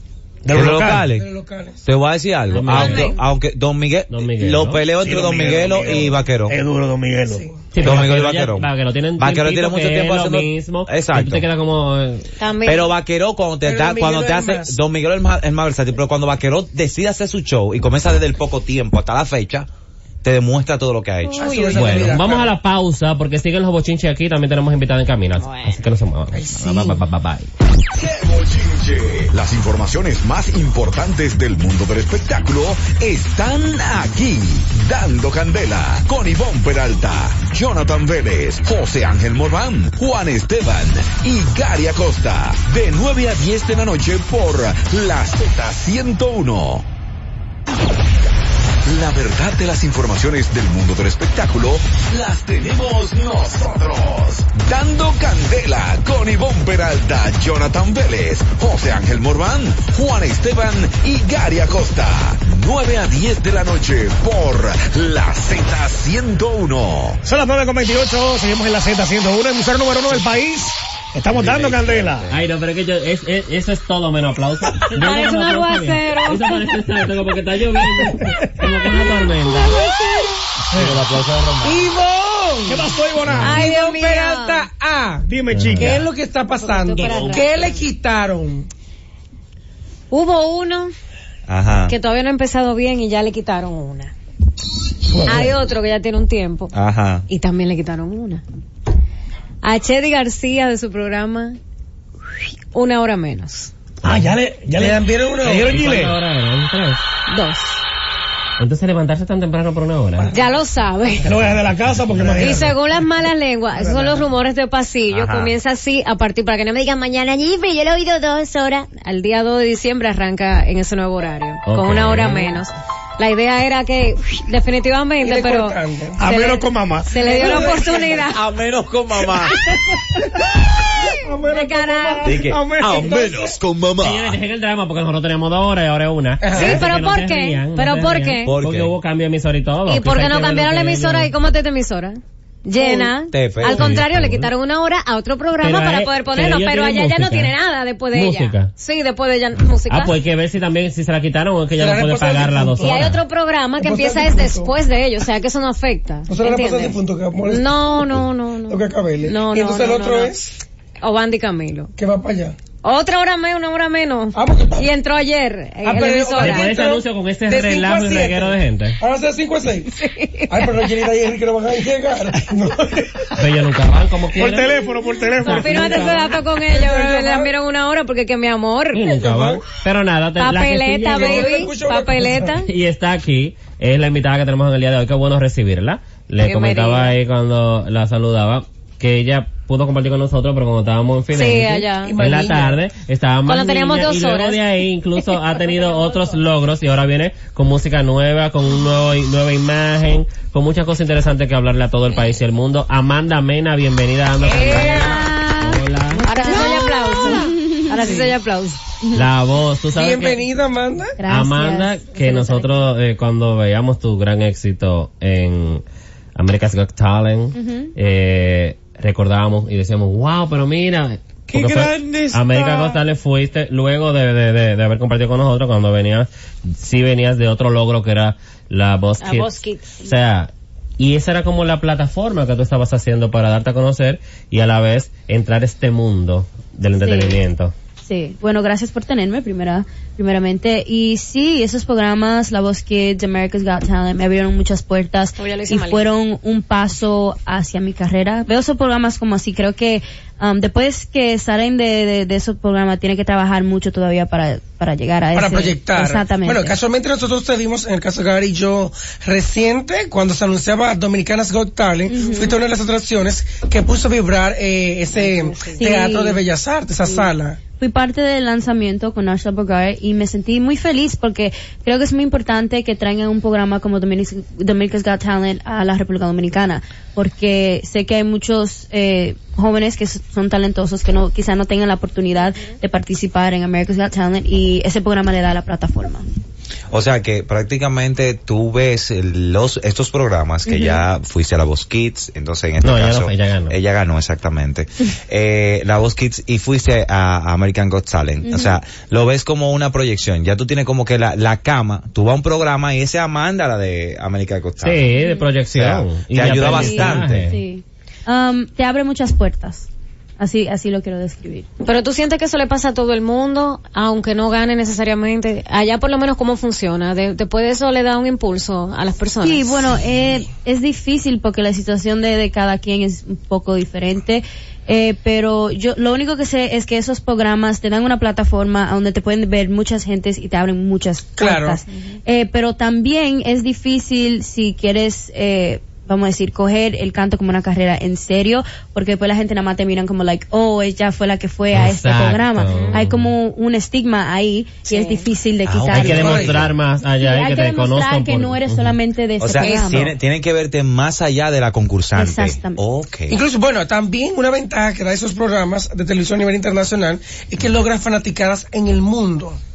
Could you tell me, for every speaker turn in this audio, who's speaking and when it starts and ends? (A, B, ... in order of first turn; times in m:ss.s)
0:00.4-0:01.1 A
0:00.5-0:01.3 B
0:01.1-0:01.8 C
0:01.8-0:06.6 B
0:02.5-0:03.2 D
0:02.5-0:03.1 E
0:04.1-0:04.8 E
0:05.0-0:07.4 A
0:07.3-0:07.5 C
0:07.7-0:12.3 E
0:07.8-0:11.4 B
0:12.4-0:12.9 D
0:12.6-0:19.7 B
0:13.6-0:14.8 C
0:20.2-0:21.5 B
0:21.2-0:22.1 D
0:21.4-0:22.5 C
0:21.7-0:27.5 E
0:25.4-0:25.8 D
0:26.3-0:27.0 C
0:27.9-0:46.9 F
0:48.8-1:07.2 F
1:07.2-1:12.3 A
1:11.3-1:12.4 B
1:12.3-1:19.8 E
1:14.9-1:16.6 D
1:19.6-1:20.4 C
1:19.6-1:19.9 D
1:20.7-1:21.9 B
1:20.7-1:21.0 A
1:21.6-1:25.3 C
1:22.7-1:23.7 A
1:23.4-1:24.7 D
1:25.3-1:26.1 A
1:25.5-1:26.0 E
1:25.8-1:28.7 C
1:26.5-1:27.8 D
1:30.1-1:30.9 D
1:31.5-1:32.0 B
1:31.9-1:34.1 D
1:35.1-1:35.5 A
1:35.2-1:36.7 D
1:36.7-1:37.2 B
1:37.3-1:38.4 D
1:39.6-1:41.6 D
1:42.7-1:43.7 D
1:44.0-1:44.3 E
1:44.0-1:46.2 A
1:44.7-1:45.7 C
1:45.6-1:47.0 E
1:47.3-1:47.8 D
1:48.6-1:50.3 E
1:50.2-1:50.5 C
1:50.3-1:51.4 D
1:51.2-1:52.8 A
1:52.2-1:52.6 E
1:52.4-2:08.5 D
1:53.8-1:54.2 C
1:55.1-1:55.5 B
2:01.7-2:02.6 E
2:05.2-2:06.2 C
2:06.2-2:07.7 A
2:07.1-2:08.3 C
2:08.2-2:09.6 B
2:09.3-2:09.8 D
2:10.5-2:13.5 A
2:11.5-2:12.4 D
2:12.2-2:13.6 B
2:13.0-2:14.4 F
2:14.0-2:21.3 E
2:16.4-2:16.8 C
2:16.5-2:18.5 D
2:18.4-2:18.9 B
2:19.9-2:30.2 D
2:22.8-2:23.1 C
2:23.3-2:24.0 B
2:23.6-2:24.5 E
2:25.6-2:27.6 E
2:28.1-2:28.7 E
2:29.9-2:33.2 E
2:31.8-2:33.2 C
2:32.8-2:40.4 D
2:33.8-2:34.7 C
2:36.3-2:40.6 C
2:41.0-2:41.9 D
2:42.0-2:42.6 C
2:42.8-2:46.8 D
2:44.3-2:44.9 C
2:45.8-2:49.9 C
2:46.4-2:49.0 E
2:49.8-2:51.0 D
2:50.5-2:53.0 C
2:52.5-2:53.3 A
2:53.4-2:54.7 E
2:54.3-2:56.2 A
2:55.4-2:56.2 E
2:55.4-2:59.0 D
2:55.7-2:57.5 C
2:58.9-3:01.6 E
2:59.0-2:59.6 C
3:00.4-3:02.7 D
3:01.1-3:02.6 C
3:02.7-3:26.6 E
3:06.4-3:07.1 D
3:11.3-3:12.2 D
3:12.0-3:12.8 C
3:13.5-3:14.6 D
3:24.4-3:25.4 C
3:24.5-3:28.8 D
3:26.3-3:28.2 G
3:28.0-3:28.3 C
3:29.1-3:30.4 E
3:29.9-3:31.2 C
3:31.2-3:32.8 G
3:31.2-3:35.8 E
3:36.4-3:57.7 E
3:37.6-3:37.9 G
3:49.2-3:50.1 D
3:57.0-3:57.4 G
3:58.1-4:16.8 G
4:05.4-4:06.1 D
4:15.3-4:27.6 C
4:22.1-4:22.6 G
4:22.2-4:22.5 D
4:25.1-4:25.9 D
4:25.8-4:26.4 G
4:27.0-4:46.3 G
4:42.4-4:42.7 D
4:46.9-5:05.1 B
4:50.7-4:51.0 G
4:52.8-4:53.8 E
4:58.4-4:58.8 G
5:04.8-5:07.6 E
5:05.2-5:05.5 G
5:05.7-5:07.5 B
5:06.7-5:07.2 D
5:07.5-5:09.9 G
5:10.4-5:11.7 G
5:11.8-5:19.9 D
5:19.4-5:46.5 G
5:31.4-5:31.8 C
5:31.9-5:32.2 D
5:41.7-5:43.3 E
5:42.7-5:43.0 D
5:44.9-5:45.3 D
5:45.6-5:46.7 B
5:45.9-5:49.0 E
5:46.1-5:46.6 C
5:47.1-5:50.1 G
5:49.4-5:53.4 B
5:49.6-5:50.0 D
5:52.2-5:52.8 G
5:53.3-5:59.6 C